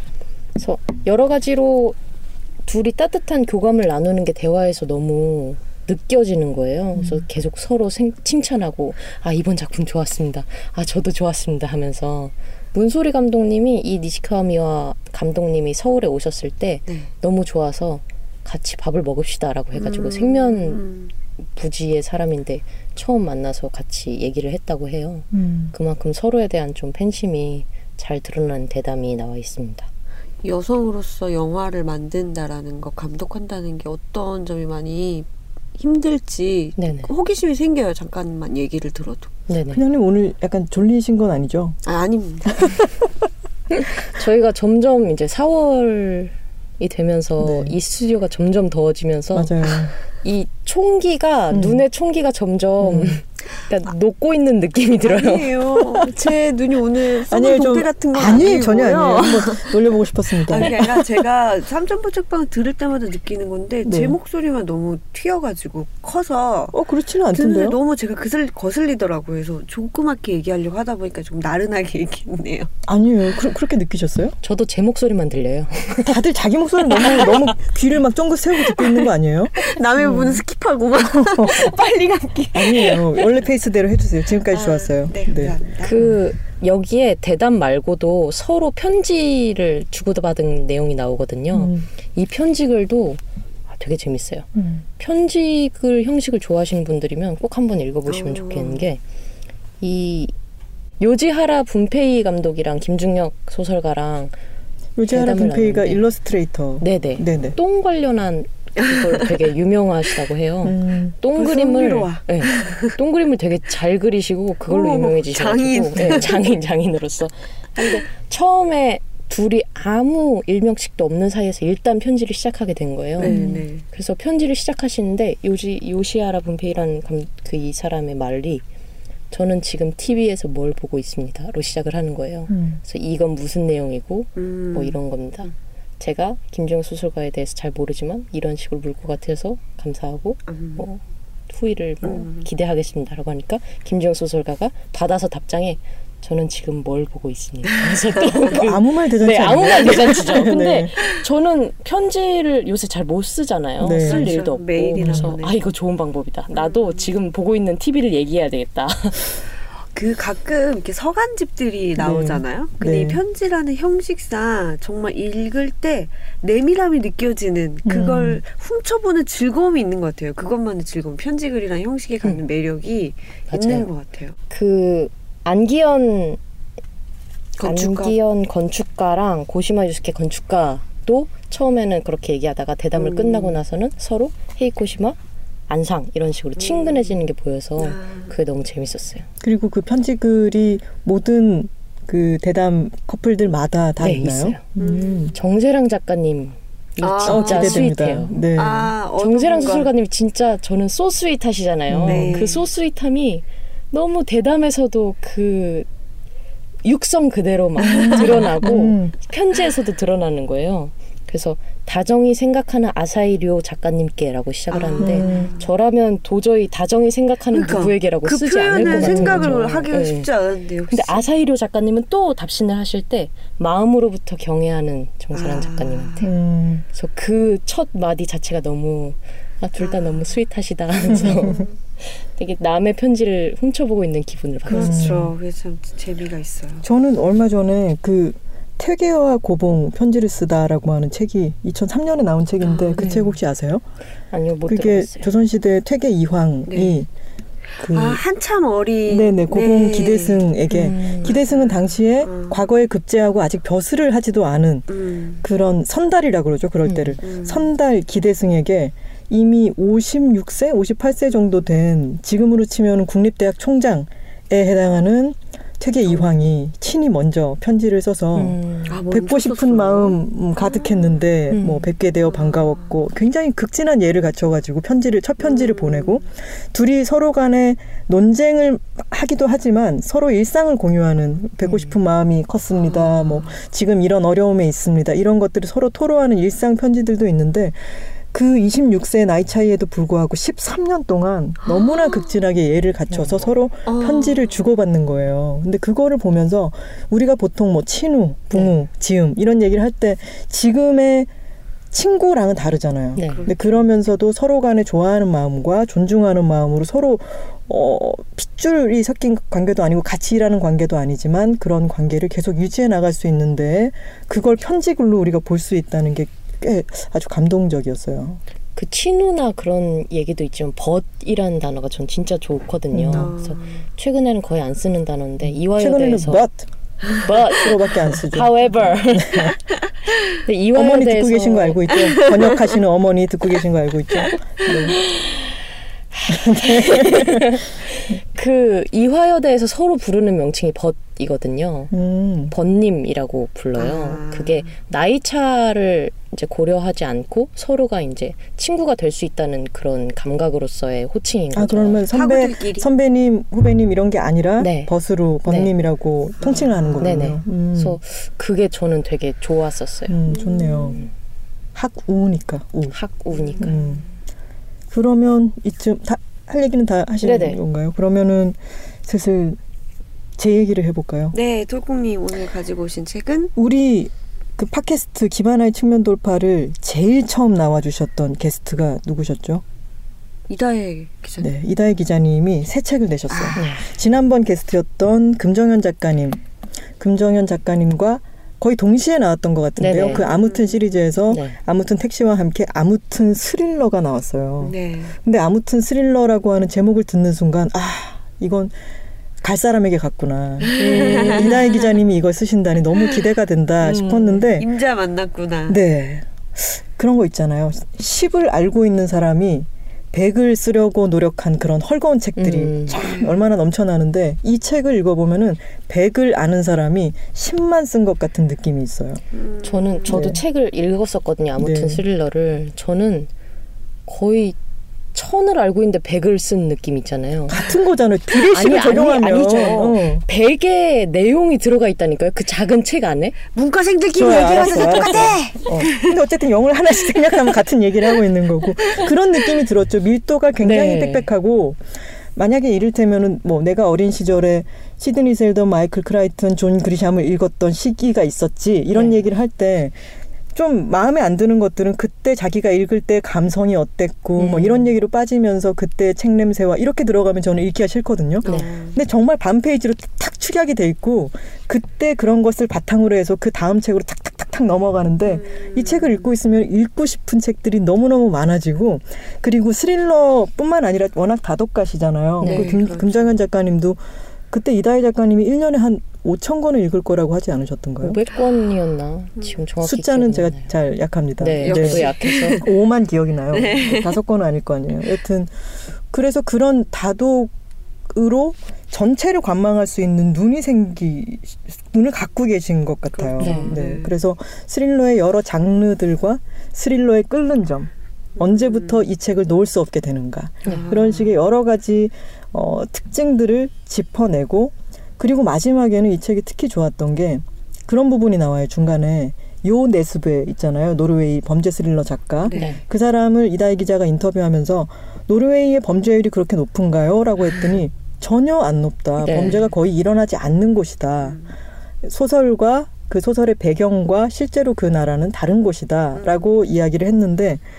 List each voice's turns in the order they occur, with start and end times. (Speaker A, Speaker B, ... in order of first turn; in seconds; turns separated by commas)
Speaker A: 0.6-2.0, Speaker A: 2.6-20.8, Speaker B: 7.0-7.2, Speaker C: 19.8-21.1, Speaker A: 21.5-29.9, Speaker B: 25.3-25.7, Speaker C: 30.4-39.3, Speaker A: 36.8-37.1, Speaker A: 39.5-39.8, Speaker B: 39.7-41.8, Speaker C: 41.9-42.6, Speaker B: 42.5-43.0, Speaker A: 43.7-55.5, Speaker B: 47.4-47.8, Speaker B: 49.4-50.0, Speaker B: 51.5-51.8, Speaker B: 52.8-53.2, Speaker C: 55.0-59.8, Speaker B: 57.3-61.2, Speaker C: 60.4-66.8, Speaker B: 63.9-64.2, Speaker B: 66.7-67.8, Speaker C: 67.3-72.7, Speaker B: 72.9-74.3, Speaker A: 74.4-76.1, Speaker B: 76.0-80.4, Speaker C: 77.0-77.5, Speaker C: 78.7-83.3, Speaker B: 81.0-81.7, Speaker B: 82.5-86.2, Speaker C: 84.5-86.0, Speaker A: 85.8-99.0, Speaker B: 91.5-91.9, Speaker B: 94.5-94.8, Speaker C: 98.1-98.8, Speaker A: 99.8-100.3, Speaker A: 101.0-104.3, Speaker B: 105.0-107.6, Speaker A: 105.1-106.0, Speaker A: 106.8-128.6, Speaker B: 110.6-111.2, Speaker C: 111.3-113.0, Speaker C: 114.7-116.3, Speaker B: 116.0-116.2, Speaker B: 123.2-123.7, Speaker C: 123.2-123.8, Speaker A: 129.3-159.4, Speaker B: 132.5-132.8, Speaker C: 134.4-135.0, Speaker C: 140.5-140.9, Speaker C: 142.0-142.5, Speaker C: 147.7-148.5, Speaker B: 148.5-150.9, Speaker B: 153.8-154.4, Speaker C: 154.0-155.6, Speaker B: 155.0-155.3, Speaker C: 156.5-157.1, Speaker C: 159.9-174.4, Speaker B: 162.0-163.2, Speaker B: 167.8-168.4, Speaker A: 173.5-173.9, Speaker A: 174.5-176.4, Speaker C: 177.6-178.2, Speaker A: 177.6-189.3, Speaker C: 182.9-183.6, Speaker C: 186.6-187.2, Speaker C: 187.8-188.3, Speaker B: 189.4-195.3, Speaker A: 194.0-194.7, Speaker C: 194.8-195.4, Speaker A: 195.3-198.4, Speaker C: 197.0-197.9, Speaker B: 197.2-198.9, Speaker C: 198.5-199.9, Speaker A: 199.2-205.9, Speaker B: 201.9-202.4, Speaker C: 202.0-202.7, Speaker A: 206.8-220.3, Speaker C: 207.8-208.5, Speaker B: 207.8-209.2, Speaker C: 214.7-215.7, Speaker B: 215.0-215.5, Speaker C: 217.5-221.2, Speaker B: 218.9-219.6, Speaker A: 220.9-226.3, Speaker C: 225.3-226.3, Speaker B: 226.2-226.9, Speaker A: 226.9-235.1, Speaker C: 229.8-230.3, Speaker C: 231.0-231.7, Speaker B: 231.1-231.6, Speaker C: 234.7-236.8, Speaker B: 234.8-235.3, Speaker B: 236.8-243.8, Speaker C: 242.6-243.1, Speaker A: 243.0-243.4, Speaker A: 244.3-245.3, Speaker B: 244.7-247.1, Speaker C: 246.7-247.0, Speaker C: 247.8-250.5, Speaker B: 247.8-248.2, Speaker B: 249.1-254.9, Speaker A: 250.7-251.4, Speaker C: 251.2-252.6, Speaker C: 254.9-255.4, Speaker B: 255.4-301.3, Speaker A: 256.9-257.2, Speaker C: 257.2-257.7, Speaker C: 266.1-266.3, Speaker A: 268.4-269.0, Speaker C: 268.9-271.2, Speaker A: 271.5-271.9, Speaker C: 272.3-273.0, Speaker C: 275.4-276.3, Speaker A: 281.6-282.0, Speaker C: 282.8-283.6, Speaker C: 291.6-292.4, Speaker A: 293.1-293.4, Speaker C: 293.9-294.6, Speaker B: 301.9-318.4, Speaker A: 303.2-303.5, Speaker C: 303.3-303.9, Speaker A: 318.8-326.5, Speaker B: 322.9-323.3, Speaker C: 323.1-323.8, Speaker B: 325.4-326.7, Speaker A: 327.2-329.5, Speaker B: 327.5-329.5, Speaker A: 330.4-331.9, Speaker B: 330.7-335.0, Speaker C: 331.9-332.6, Speaker B: 336.3-337.5, Speaker A: 336.4-341.9, Speaker B: 341.9-342.5, Speaker A: 342.5-352.1, Speaker C: 343.8-344.7, Speaker B: 351.5-358.0, Speaker C: 352.1-352.9, Speaker A: 354.6-354.9, Speaker A: 355.5-355.7, Speaker C: 356.4-357.3, Speaker A: 357.0-360.2, Speaker B: 360.1-361.1, Speaker C: 360.3-361.1, Speaker B: 361.8-362.9, Speaker A: 362.9-363.8, Speaker C: 363.3-364.0, Speaker B: 363.6-364.0, Speaker B: 364.9-369.6, Speaker A: 367.2-367.6, Speaker B: 370.4-371.3, Speaker C: 371.3-373.5, Speaker B: 373.6-379.6, Speaker C: 380.5-381.6, Speaker B: 381.4-386.4, Speaker C: 383.3-383.6, Speaker A: 383.6-383.9, Speaker B: 387.0-398.7, Speaker A: 389.8-390.2, Speaker C: 390.0-390.8, Speaker A: 391.3-391.6, Speaker C: 394.6-395.2, Speaker B: 399.4-404.7, Speaker C: 400.6-401.9, Speaker A: 401.2-401.6, Speaker C: 403.8-405.8, Speaker B: 405.7-419.2, Speaker A: 412.4-413.0, Speaker C: 413.0-413.4, Speaker C: 419.3-420.3, Speaker A: 419.6-423.3, Speaker B: 420.1-420.4, Speaker B: 421.6-422.0, Speaker A: 424.1-424.6, Speaker A: 425.1-427.6, Speaker B: 427.5-430.2, Speaker A: 428.5-433.4, Speaker C: 429.6-429.9, Speaker C: 433.5-436.2, Speaker B: 434.1-441.8, Speaker C: 437.1-437.6, Speaker C: 438.9-439.6, Speaker A: 440.6-441.3, Speaker B: 442.4-450.0, Speaker A: 448.9-449.3, Speaker B: 450.5-478.2, Speaker A: 454.4-454.9, Speaker C: 458.4-459.0, Speaker A: 458.4-458.7, Speaker C: 465.2-466.3, Speaker A: 472.4-472.8, Speaker C: 472.4-473.4, Speaker A: 478.0-480.7, Speaker B: 479.8-485.5, Speaker A: 481.4-482.6, Speaker C: 481.6-482.7, Speaker C: 483.5-484.2, Speaker B: 486.1-487.5, Speaker B: 488.1-521.4, Speaker C: 493.2-494.2, Speaker A: 493.4-493.8, Speaker C: 498.4-499.0, Speaker C: 500.6-501.3, Speaker C: 512.4-512.8, Speaker A: 512.5-512.8, Speaker A: 519.2-519.6, Speaker C: 521.2-521.5, Speaker B: 522.0-527.6, Speaker C: 526.1-526.5